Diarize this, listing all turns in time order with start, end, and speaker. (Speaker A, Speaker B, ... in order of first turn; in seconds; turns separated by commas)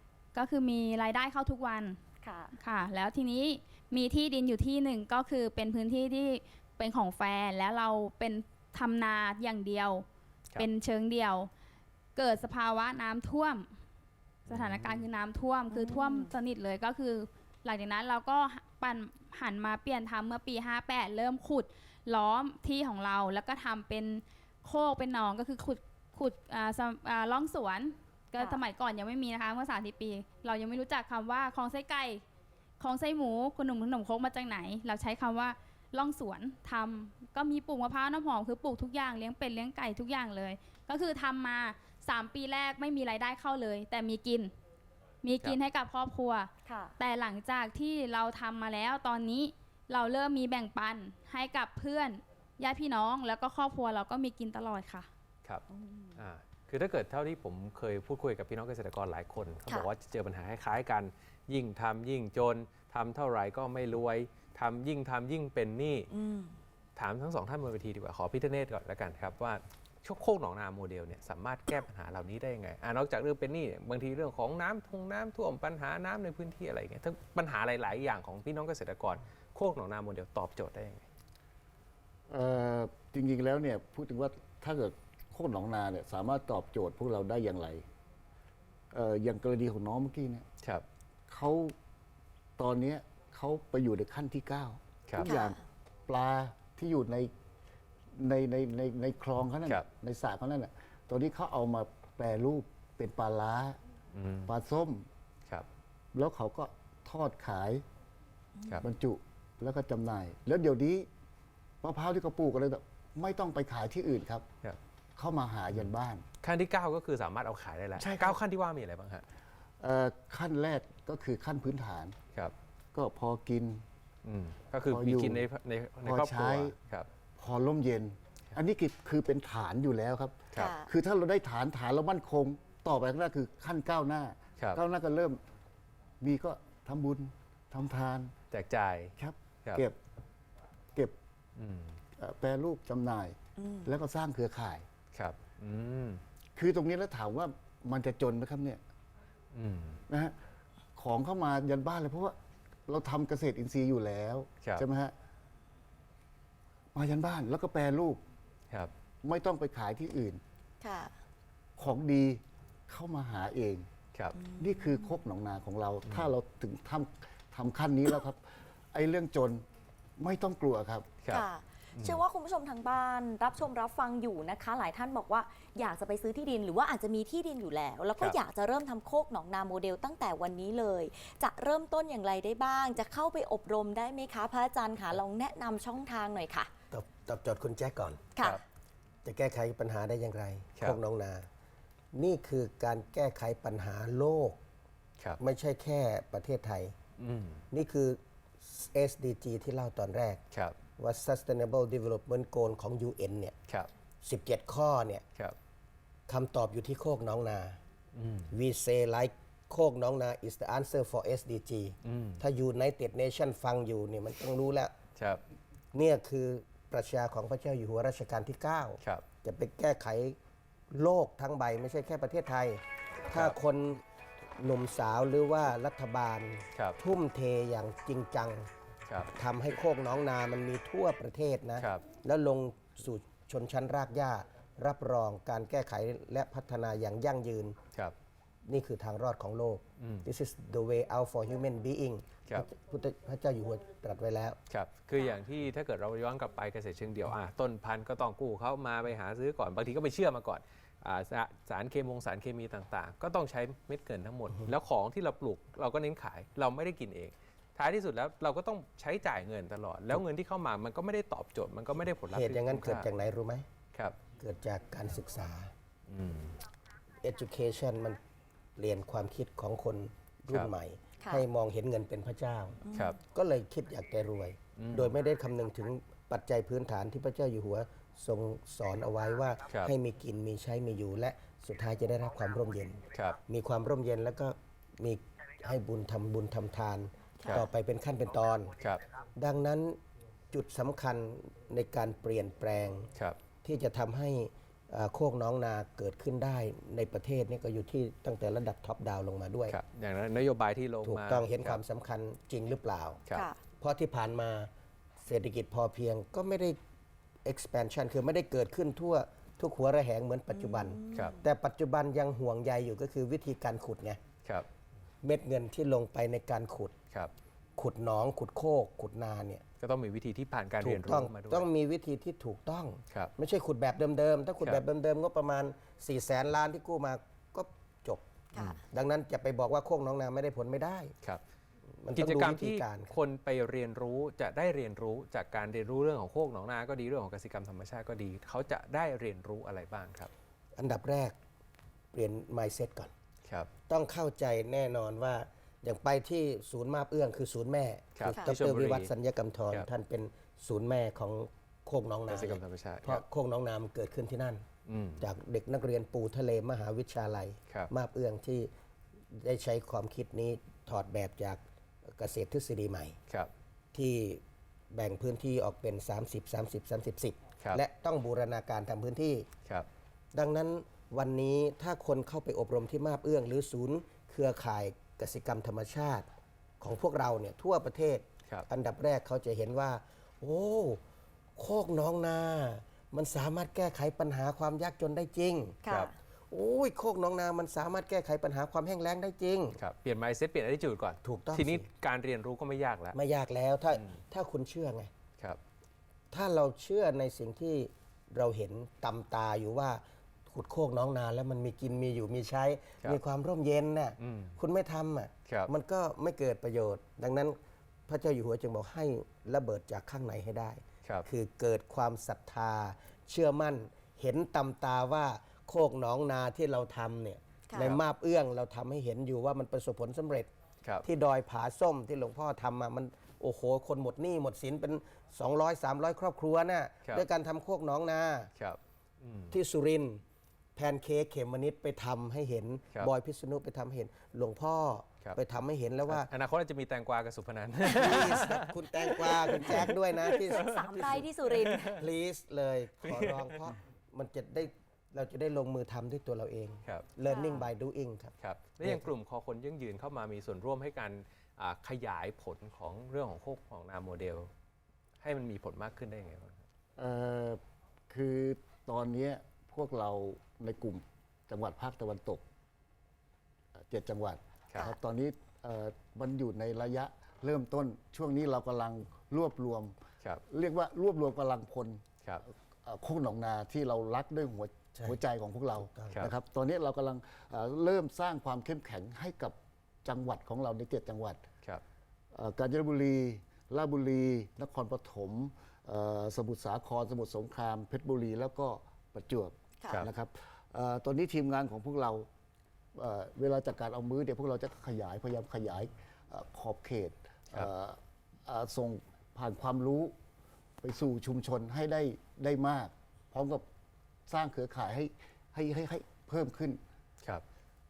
Speaker A: 0.3-2.0, Speaker B: 2.2-2.5, Speaker A: 2.6-11.5, Speaker A: 12.2-13.7, Speaker A: 14.4-32.2, Speaker C: 14.5-15.0, Speaker B: 15.7-16.3, Speaker A: 32.8-44.5, Speaker A: 45.2-55.1, Speaker B: 46.6-46.9, Speaker B: 55.7-56.2, Speaker C: 56.2-66.1, Speaker B: 66.1-66.6, Speaker C: 67.0-81.0, Speaker D: 82.3-87.8, Speaker D: 88.9-90.4, Speaker D: 91.3-91.7, Speaker D: 92.6-97.3, Speaker C: 95.1-95.3, Speaker B: 95.2-95.6, Speaker D: 98.1-103.8, Speaker C: 104.1-104.5, Speaker D: 104.5-105.1, Speaker D: 106.1-107.8, Speaker D: 108.8-111.1, Speaker D: 111.8-114.5, Speaker D: 115.2-116.2, Speaker C: 116.4-119.2, Speaker D: 118.0-118.4, Speaker D: 119.8-122.2, Speaker D: 122.9-123.8, Speaker C: 124.2-127.1, Speaker D: 124.8-125.4, Speaker D: 126.0-126.7, Speaker D: 127.3-135.4, Speaker B: 130.6-130.9, Speaker D: 136.2-138.3, Speaker C: 138.5-139.1, Speaker D: 139.2-140.0, Speaker C: 141.6-142.0, Speaker D: 142.2-144.9, Speaker B: 143.6-143.9, Speaker C: 145.1-146.2, Speaker D: 146.6-148.8, Speaker C: 149.5-150.0, Speaker D: 150.1-150.3, Speaker D: 150.9-152.3, Speaker D: 152.9-155.1, Speaker D: 156.9-158.2, Speaker D: 159.2-160.4, Speaker B: 160.8-161.1, Speaker D: 161.8-163.9, Speaker B: 164.3-165.1, Speaker D: 164.6-169.6, Speaker D: 170.2-171.1, Speaker C: 171.2-172.2, Speaker B: 171.3-186.7, Speaker E: 186.9-188.2, Speaker B: 188.3-188.6, Speaker E: 189.2-191.5, Speaker E: 192.1-194.6, Speaker E: 195.4-196.9, Speaker C: 197.2-197.6, Speaker E: 197.7-200.4, Speaker E: 201.0-203.5, Speaker E: 204.2-205.2, Speaker E: 206.3-207.8, Speaker C: 208.1-208.5, Speaker E: 208.5-214.9, Speaker C: 212.0-212.4, Speaker C: 215.2-215.4, Speaker E: 215.9-220.4, Speaker E: 220.9-224.0, Speaker C: 223.3-223.6, Speaker E: 224.6-228.7, Speaker E: 229.3-237.8, Speaker E: 238.7-244.6, Speaker C: 240.0-240.2, Speaker C: 244.7-263.1, Speaker E: 262.3-263.7, Speaker E: 264.4-265.7, Speaker C: 266.1-266.6, Speaker E: 267.2-268.2, Speaker E: 268.8-288.7, Speaker B: 272.9-273.2, Speaker C: 274.8-275.2, Speaker C: 283.1-283.4, Speaker B: 287.4-287.7, Speaker E: 289.4-290.0, Speaker E: 290.5-293.1, Speaker E: 293.6-299.8, Speaker C: 299.7-301.8, Speaker E: 301.0-303.2, Speaker B: 303.3-303.6, Speaker E: 303.8-304.7, Speaker E: 305.2-306.8, Speaker E: 307.4-314.2, Speaker B: 310.5-311.4, Speaker C: 311.1-311.4, Speaker E: 315.2-316.9, Speaker E: 317.8-319.6, Speaker C: 319.8-321.7, Speaker E: 320.8-328.2, Speaker B: 328.5-328.8, Speaker E: 328.8-331.1, Speaker E: 332.0-333.1, Speaker C: 332.1-340.3, Speaker E: 340.8-341.4, Speaker E: 342.1-343.1, Speaker E: 343.9-354.6, Speaker C: 348.2-349.1, Speaker C: 352.3-353.2, Speaker C: 354.9-355.2, Speaker E: 355.2-358.7, Speaker E: 359.3-363.1, Speaker E: 363.9-369.5, Speaker E: 370.3-376.3, Speaker E: 376.8-381.0, Speaker E: 381.6-385.8, Speaker B: 385.8-386.1, Speaker C: 385.9-386.1, Speaker E: 386.5-389.8, Speaker C: 389.8-393.1, Speaker E: 391.2-391.9, Speaker E: 393.1-395.1, Speaker E: 396.3-420.5, Speaker C: 404.2-404.6, Speaker B: 417.7-417.9, Speaker C: 417.7-418.0, Speaker E: 421.0-428.5, Speaker C: 428.6-429.5, Speaker E: 429.5-430.2, Speaker E: 430.8-436.3, Speaker C: 436.1-442.0, Speaker E: 437.8-441.2, Speaker B: 440.4-441.9, Speaker E: 441.8-449.1, Speaker C: 443.0-443.7, Speaker B: 447.3-447.6, Speaker C: 448.4-454.5, Speaker C: 455.2-456.6, Speaker D: 457.0-462.4, Speaker D: 463.8-472.0, Speaker D: 472.8-481.5, Speaker E: 475.9-476.2, Speaker D: 482.3-492.3, Speaker D: 492.9-500.1, Speaker D: 500.8-503.6, Speaker D: 504.3-506.8